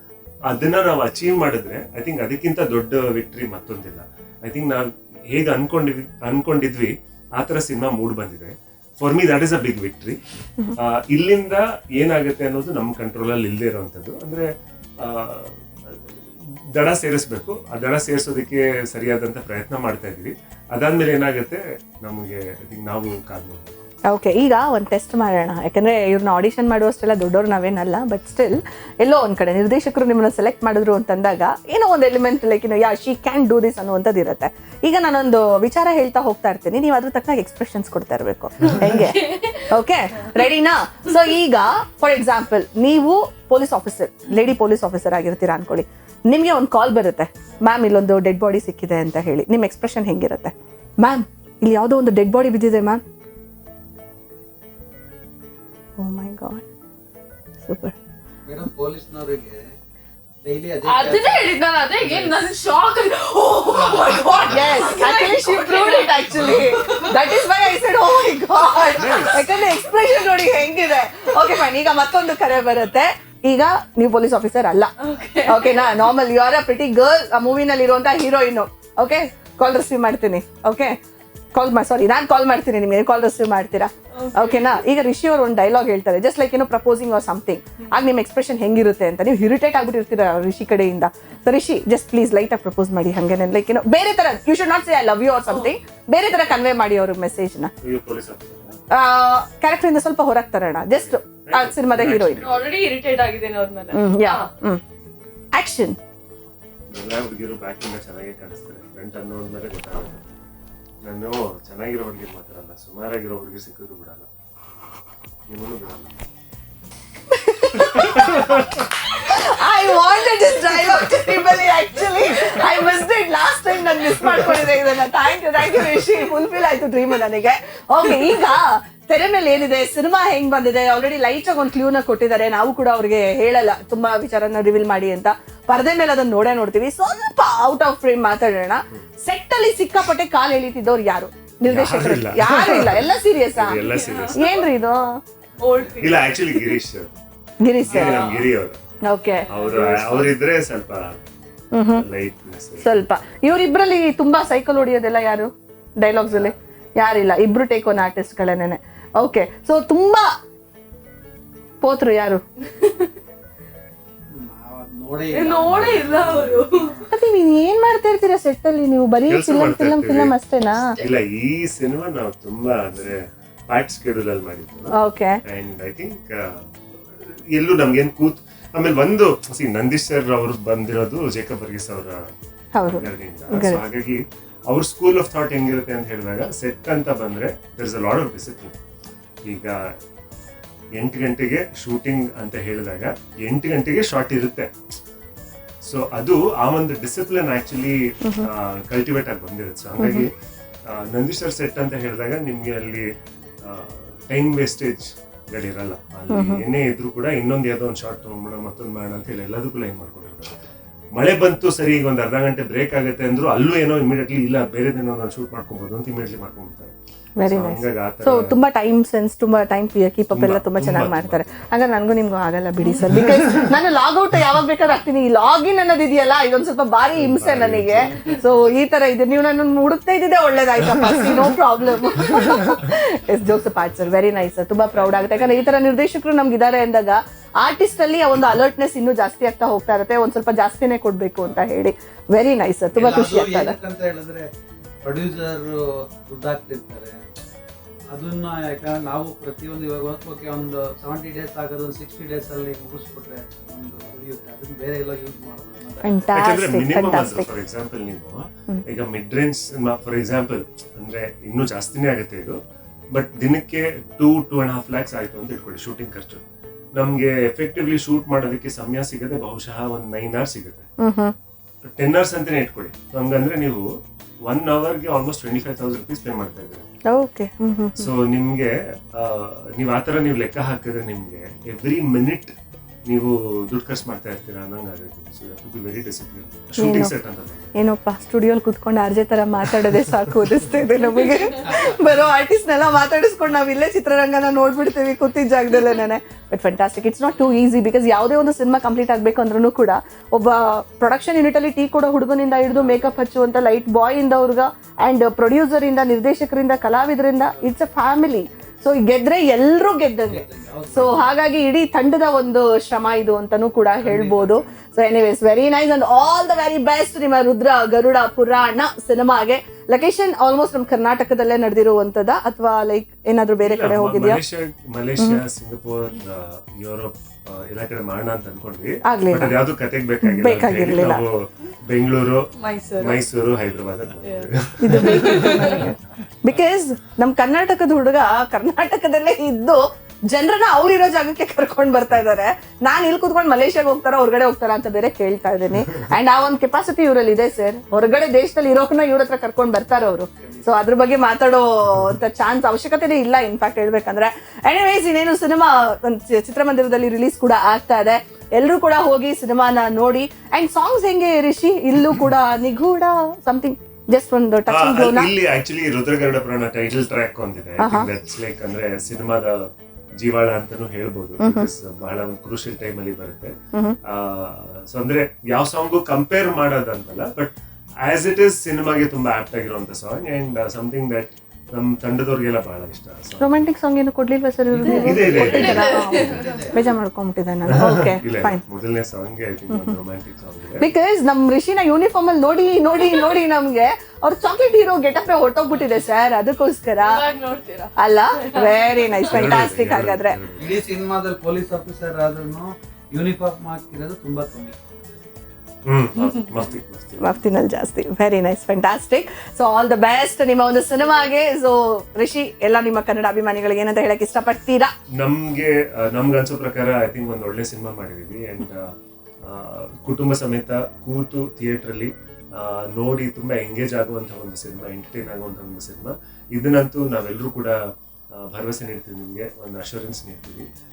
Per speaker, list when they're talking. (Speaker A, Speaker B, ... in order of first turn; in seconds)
Speaker A: 0.5-10.2, 10.8-14.5, 15.0-23.8, 68.9-69.4, 97.8-98.8, 100.9-102.8, 106.9-110.2, 111.0-114.3, 115.5-116.1, 117.9-118.6, 141.7-144.6, 146.0-147.1, 147.9-148.8, 149.5-151.2, 152.0-153.0, 169.3-170.3, 170.9-173.2, 173.7-174.9, 175.5-182.2, 182.8-188.8, 189.5-189.8, 191.0-194.7, 195.9-200.3, 200.9-203.1, 203.7-210.6, 211.2-216.9, 217.5-218.5, 220.3-221.7, 223.0-223.8, 227.1-228.2, 256.3-262.6, 263.1-266.4, 267.0-270.9, 272.0-273.9, 274.5-276.9, 278.0-282.5, 283.1-287.8, 323.6-332.5, 333.0-335.5, 364.7-369.5, 370.2-373.5, 374.1-377.5, 378.1-383.6, 384.9-386.4, 387.7-390.9, 399.2-400.8, 405.9-407.4, 415.2-418.8, 419.4-427.7, 428.5-430.7
Speaker B: 24.1-53.0, 56.0-56.6, 57.6-58.0, 64.4-74.9, 75.5-81.0, 81.5-97.7, 98.9-102.5, 103.9-104.8, 105.5-106.0, 117.3-143.8, 144.3-145.2, 147.6-148.2, 149.0-149.5, 151.7-152.1, 152.8-160.3, 161.8-162.4, 167.1-170.9, 174.9-175.4, 182.8-183.8, 198.2-198.5, 200.0-200.3, 206.3-206.6, 217.4-243.8, 256.0-257.5, 271.0-271.4, 277.1-278.1, 286.8-287.1, 287.8-324.4, 329.1-329.6, 330.2-331.2, 334.8-365.3, 367.8-368.1, 371.4-371.7, 383.4-388.6, 390.8-397.2, 398.0-400.4, 407.2-414.9
Speaker C: 39.0-39.6, 60.9-67.3, 68.7-69.3, 75.0-75.8, 84.2-84.8, 102.4-104.5, 143.8-144.6, 145.6-146.8, 147.9-148.4, 165.3-166.9, 332.6-333.2, 334.2-335.9, 385.4-386.6, 397.0-399.5
Speaker D: 58.5-59.6, 60.4-62.4, 63.7-64.9, 145.6-146.2, 147.9-148.2, 149.6-150.3, 156.3-156.5, 164.3-167.1, 234.9-235.6, 242.9-244.5, 245.0-247.2, 248.1-256.2, 307.5-307.9, 308.6-308.8, 310.3-311.2, 314.0-314.7, 384.7-386.8, 400.6-404.8